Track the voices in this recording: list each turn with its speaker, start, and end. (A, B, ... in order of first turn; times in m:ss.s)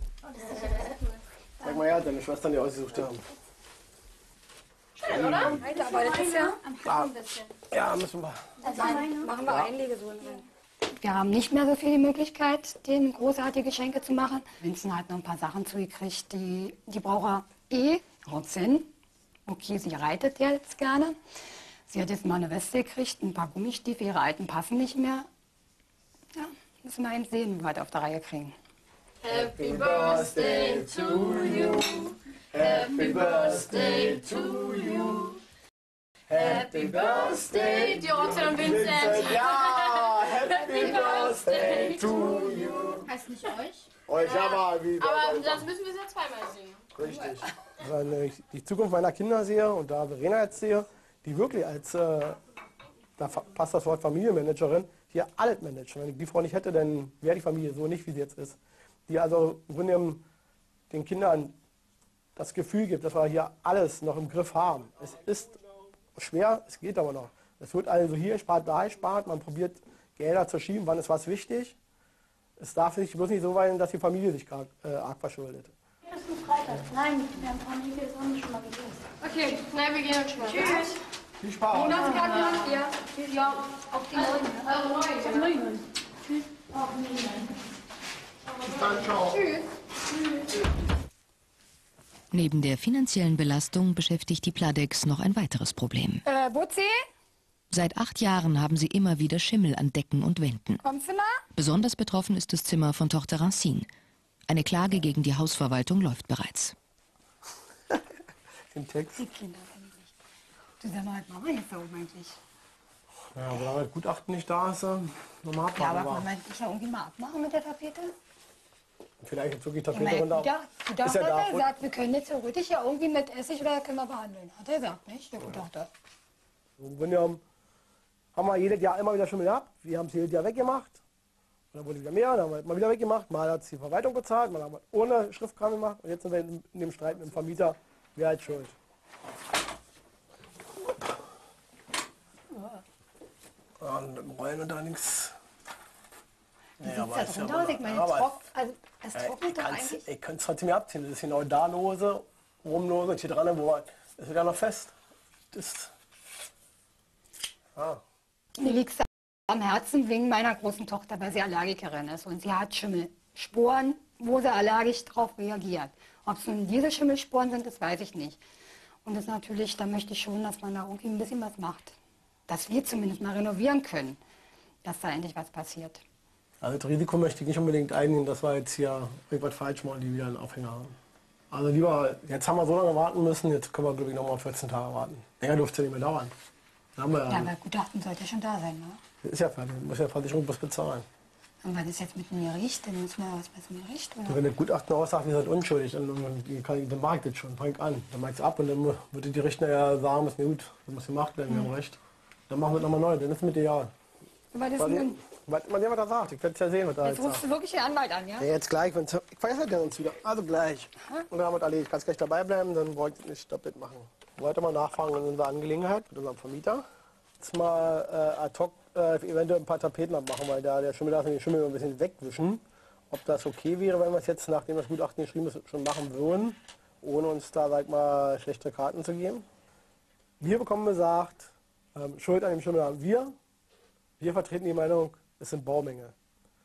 0:00.4-0:01.0 A
0:01.6-0:03.2 B
0:05.0-0:05.6 A
0:05.0-0:05.7 B
0:05.5-0:06.6 C
0:06.8-0:07.2 B
0:07.7-0:08.7 B
0:08.6-0:09.2 D
0:08.6-0:10.4 C
0:09.4-0:09.7 B
0:11.0-0:18.9 C
0:19.5-0:21.2 C
0:21.9-0:25.3 C
0:26.3-0:28.6 C
0:29.2-0:35.2 A
0:29.2-0:35.4 B
0:36.3-0:43.1 B
0:36.4-0:42.5 A
0:44.1-0:45.7 B
0:44.1-0:46.8 A
0:46.9-0:52.4 B
0:53.2-1:00.2 B
1:00.9-1:01.6 B
1:02.4-1:05.6 B
1:06.1-1:11.8 B
1:12.6-1:15.7 B
1:16.4-1:18.9 D
1:19.2-1:19.6 C
1:19.4-1:20.9 A
1:20.5-1:20.9 C
1:21.4-1:22.3 B
1:21.7-1:23.6 A
1:21.7-1:25.6 C
1:24.1-1:25.8 A
1:28.6-1:29.2 A
1:28.6-1:29.4 B
1:29.3-1:29.6 C
1:32.3-1:36.2 E
1:36.2-1:37.0 C
1:37.7-1:40.8 E
1:40.8-1:41.4 C
1:41.6-1:43.9 E
1:44.5-1:46.7 E
1:48.7-1:49.2 B
1:49.2-1:50.1 C
1:50.8-1:52.4 C
1:53.3-1:56.3 B
1:55.7-1:58.1 C
1:59.2-2:01.7 B
1:59.9-2:05.9 C
2:06.8-2:07.4 B
2:08.3-2:11.0 B
2:11.7-2:18.7 B
2:23.8-2:25.4 B
2:26.8-2:28.4 B
2:26.8-2:30.0 C
2:29.1-2:34.9 B
2:35.5-2:35.9 B
2:37.7-2:38.0 B
2:38.6-2:48.4 C
2:49.0-2:52.0 C
2:52.5-2:54.2 C
2:54.8-2:56.0 C
2:56.6-3:01.0 B
3:01.5-3:06.3 B
3:07.0-3:07.5 B
3:07.3-3:09.0 C
3:09.2-3:11.0 B
3:11.6-3:14.4 C
3:14.3-3:22.0 B
3:22.5-3:23.9 B
3:24.5-3:25.2 C
3:24.8-3:27.4 B
3:27.0-3:28.5 C
3:28.4-3:36.8 B
3:37.4-3:49.4 B
3:50.4-3:53.4 B
3:54.2-3:56.1 B